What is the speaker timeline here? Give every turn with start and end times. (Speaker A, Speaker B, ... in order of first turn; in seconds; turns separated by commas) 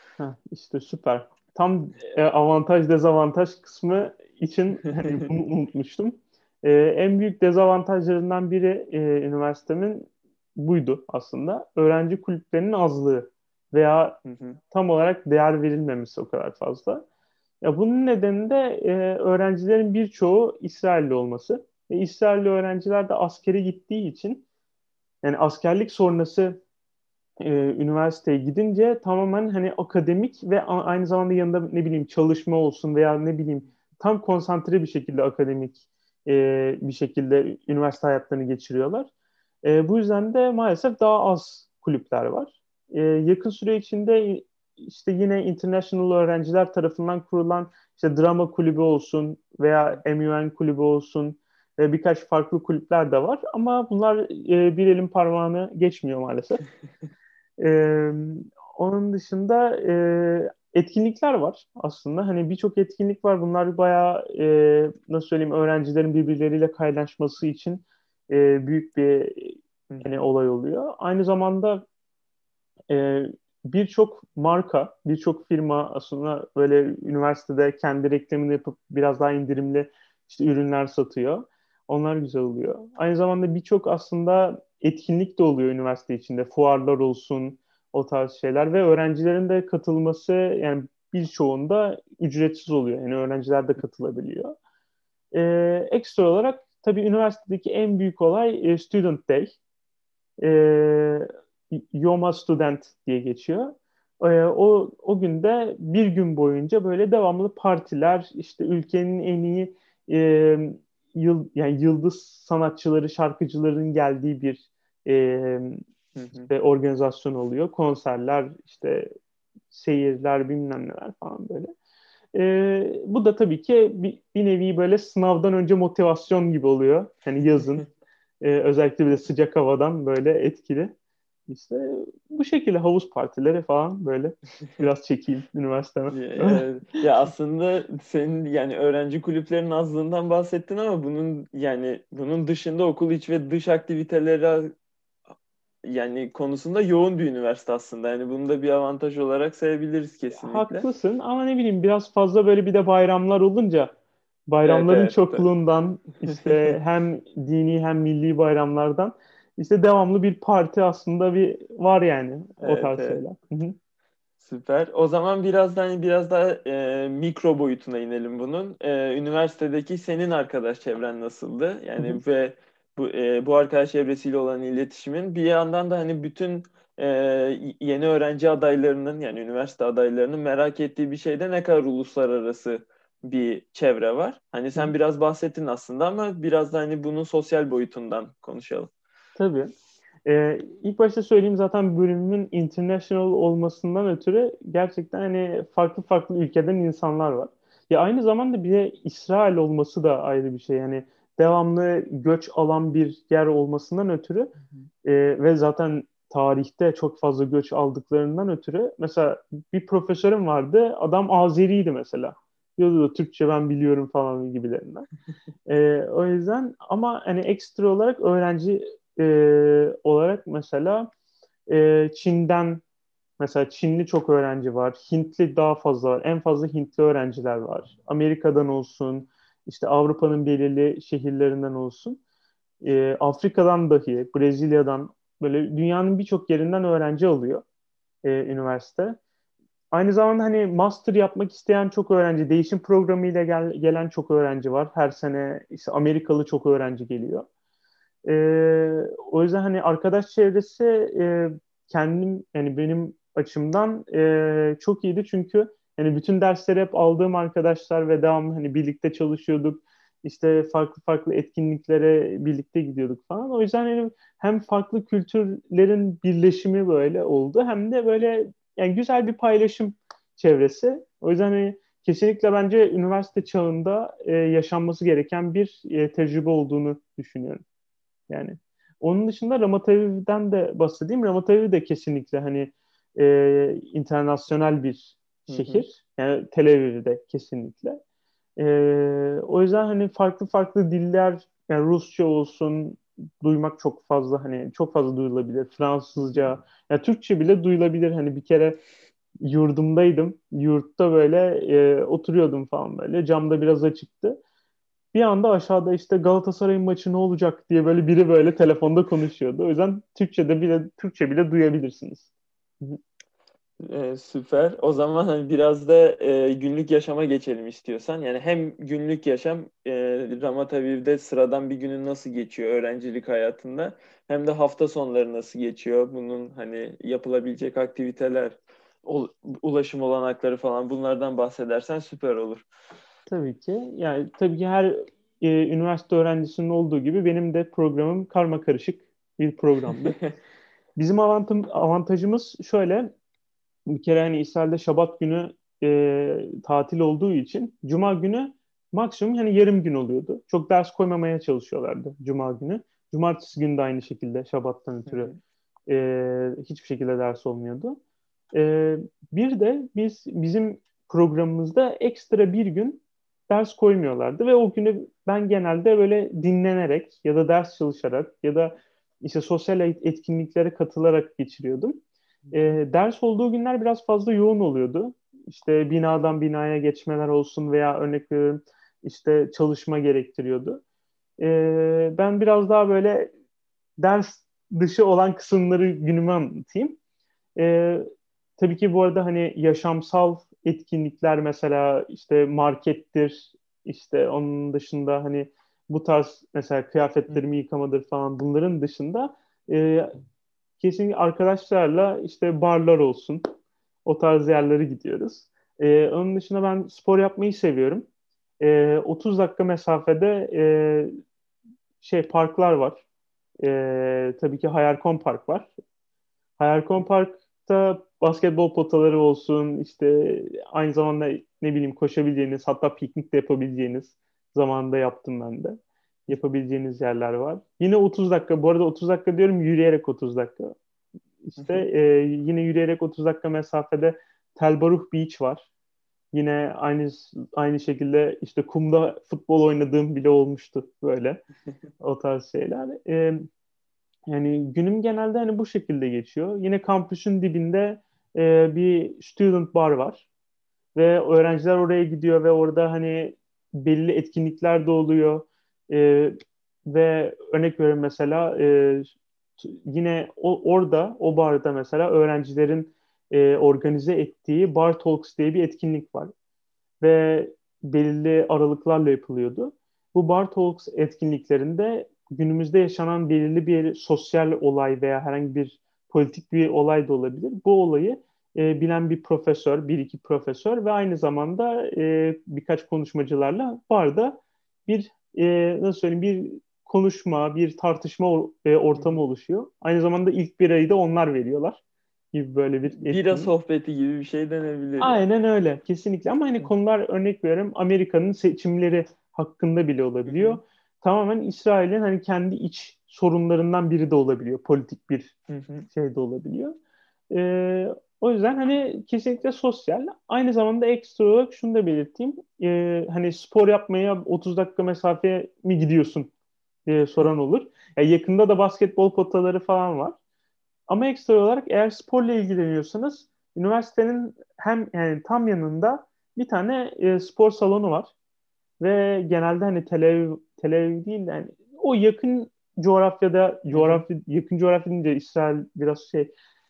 Speaker A: 0.2-17.0, Speaker B: 14.2-14.6, Speaker A: 17.6-24.4, Speaker A: 25.2-26.6, Speaker A: 27.4-39.1, Speaker A: 39.6-56.6, Speaker A: 57.6-71.8, Speaker A: 72.9-94.5, Speaker A: 95.3-99.6, Speaker A: 100.4-115.8, Speaker B: 116.1-116.5, Speaker A: 116.5-119.1, Speaker A: 119.7-121.7, Speaker A: 122.3-127.8, Speaker A: 128.4-130.9, Speaker A: 131.5-136.6, Speaker B: 136.1-144.7, Speaker B: 145.8-150.8, Speaker A: 150.3-153.9, Speaker A: 154.5-163.8, Speaker B: 154.6-155.4, Speaker B: 156.2-156.7, Speaker B: 162.6-163.2, Speaker B: 164.4-188.9, Speaker A: 189.4-189.7, Speaker A: 190.2-215.1, Speaker A: 215.7-221.1, Speaker A: 221.7-222.8, Speaker A: 223.4-232.2, Speaker A: 232.8-237.6, Speaker A: 238.2-239.2, Speaker A: 239.9-247.5, Speaker A: 248.2-277.6, Speaker A: 278.3-288.0, Speaker B: 285.5-285.8, Speaker A: 288.6-298.8, Speaker B: 296.1-296.5, Speaker A: 299.4-304.4, Speaker A: 305.1-313.0, Speaker B: 313.8-332.6, Speaker A: 333.3-340.2, Speaker A: 340.9-343.1, Speaker A: 343.9-355.3, Speaker B: 355.1-355.4, Speaker A: 355.9-358.0, Speaker A: 358.5-372.0, Speaker B: 372.5-372.8, Speaker A: 372.5-380.8, Speaker A: 381.4-383.3, Speaker A: 384.0-387.0, Speaker A: 387.6-388.1, Speaker A: 388.6-400.2, Speaker A: 400.8-403.4, Speaker A: 404.0-408.1, Speaker A: 408.6-411.2, Speaker A: 412.0-413.0, Speaker A: 413.6-415.7, Speaker A: 416.6-425.8, Speaker A: 426.3-430.7, Speaker A: 431.4-435.7, Speaker B: 431.6-431.9, Speaker A: 436.3-441.4, Speaker A: 442.0-443.5, Speaker A: 444.3-450.3, Speaker A: 450.9-466.3, Speaker A: 467.0-491.8, Speaker A: 492.3-493.5, Speaker B: 492.9-495.2, Speaker A: 495.0-505.3, Speaker B: 500.3-500.6, Speaker B: 505.5-505.9, Speaker A: 505.9-506.8, Speaker A: 507.3-516.3, Speaker A: 516.9-520.1, Speaker A: 520.9-528.1, Speaker A: 528.8-536.3, Speaker B: 533.7-534.0